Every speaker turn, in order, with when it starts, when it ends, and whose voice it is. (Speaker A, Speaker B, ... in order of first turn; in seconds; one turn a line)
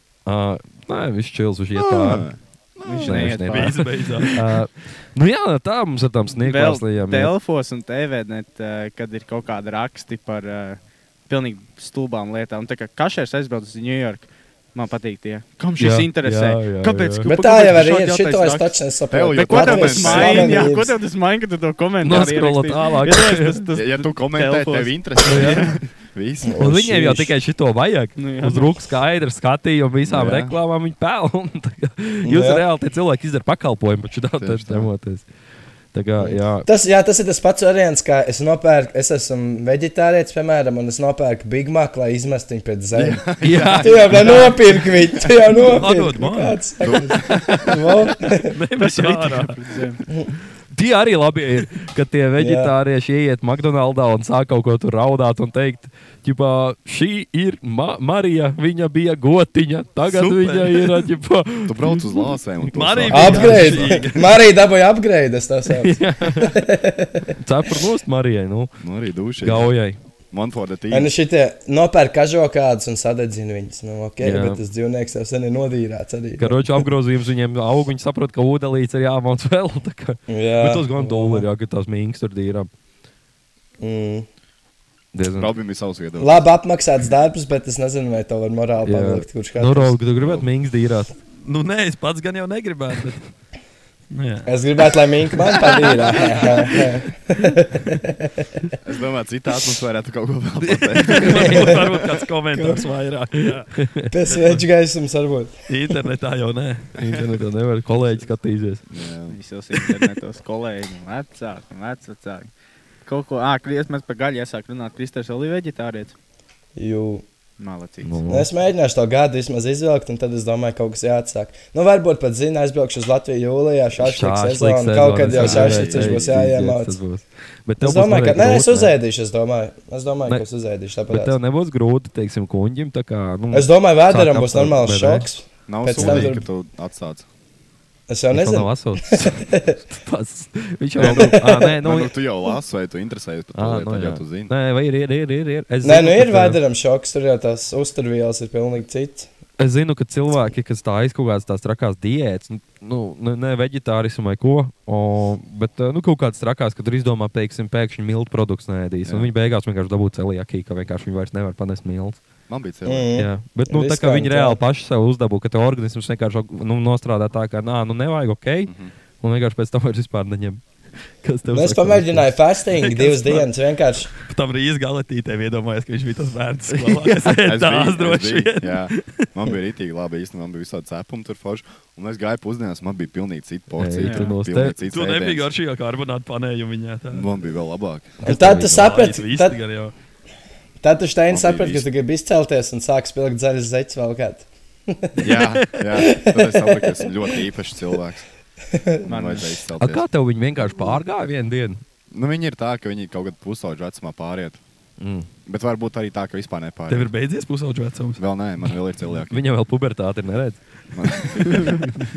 Speaker A: 0.2-2.3
Speaker B: 1.8-3.4
Speaker C: 2.8-4.3
Speaker A: 3.0-7.3
Speaker D: 3.5-4.4
Speaker C: 6.4-18.8
Speaker A: 15.8-17.3
Speaker E: 17.2-21.0
Speaker B: 19.1-20.7
Speaker C: 19.3-25.8
Speaker A: 22.0-23.6
Speaker B: 23.7-26.7
Speaker A: 25.2-25.6
Speaker E: 26.4-27.3
Speaker A: 26.6-35.2
Speaker C: 28.2-28.7
Speaker B: 30.0-30.6
Speaker E: 32.2-32.6
Speaker B: 34.4-34.9
Speaker A: 35.9-36.7
Speaker E: 36.2-48.5
Speaker B: 42.9-44.6
Speaker A: 43.4-44.5
Speaker D: 45.5-46.6
Speaker B: 46.8-47.8
Speaker D: 48.6-49.5
Speaker C: 48.8-50.0
Speaker A: 50.7-62.2
Speaker E: 52.4-52.7
Speaker D: 60.0-61.1
Speaker B: 61.6-64.1
Speaker D: 62.7-64.2
Speaker E: 63.1-67.3
Speaker A: 63.2-63.6
Speaker A: 65.7-66.6
Speaker A: 67.4-68.7
Speaker B: 68.8-69.7
Speaker A: 69.4-70.0
Speaker B: 70.3-71.1
Speaker E: 70.9-76.8
Speaker A: 74.2-74.6
Speaker A: 76.4-82.7
Speaker E: 80.3-81.5
Speaker E: 83.8-84.3
Speaker A: 85.1-85.5
Speaker B: 85.4-86.5
Speaker E: 86.2-90.0
Speaker A: 88.8-91.1
Speaker B: 90.2-90.5
Speaker D: 91.4-93.3
Speaker D: 94.1-94.5
Speaker E: 94.5-98.5
Speaker B: 98.8-102.0
Speaker A: 100.6-101.7
Speaker D: 101.1-103.7
Speaker E: 102.5-102.8
Speaker A: 103.8-104.1
Speaker E: 104.1-105.5
Speaker D: 104.3-104.6
Speaker D: 105.7-107.0
Speaker A: 107.0-108.8
Speaker B: 108.9-109.4
Speaker C: 109.3-112.5
Speaker C: 113.0-116.1
Speaker E: 116.8-117.2
Speaker C: 117.6-118.1
Speaker A: 118.0-118.5
Speaker E: 118.3-127.0
Speaker A: 124.0-128.9
Speaker B: 125.3-126.3
Speaker E: 127.8-131.3
Speaker A: 131.1-135.3
Speaker E: 133.5-136.5
Speaker B: 135.7-137.2
Speaker A: 135.9-136.3
Speaker E: 138.1-139.8
Speaker A: 138.3-142.1
Speaker B: 141.0-144.5
Speaker E: 141.0-141.7
Speaker A: 143.5-146.6
Speaker E: 145.8-149.3
Speaker A: 149.6-162.2
Speaker B: 159.1-159.3
Speaker B: 162.5-163.1
Speaker E: 162.8-164.6
Speaker A: 163.2-170.6
Speaker B: 168.7-168.9
Speaker A: 171.2-172.3
Speaker E: 171.5-174.1
Speaker D: 174.2-179.3
Speaker A: 176.8-177.1
Speaker B: 177.4-185.5
Speaker A: 183.8-184.8
Speaker C: 184.0-184.3
Speaker D: 184.8-187.3
Speaker B: 187.1-188.2
Speaker E: 188.2-189.6
Speaker A: 188.2-189.0
Speaker D: 188.7-189.9
Speaker E: 190.8-195.4
Speaker B: 191.3-191.8
Speaker B: 195.2-198.2
Speaker E: 195.9-197.1
Speaker E: 198.7-199.1
Speaker B: 199.0-200.1
Speaker C: 199.1-199.5
Speaker A: 199.8-201.8
Speaker B: 200.6-201.0
Speaker B: 202.1-204.6
Speaker A: 205.0-205.3
Speaker B: 205.5-207.1
Speaker D: 206.9-208.2
Speaker B: 208.2-209.4
Speaker A: 209.3-210.6
Speaker B: 210.9-212.0
Speaker C: 211.5-211.9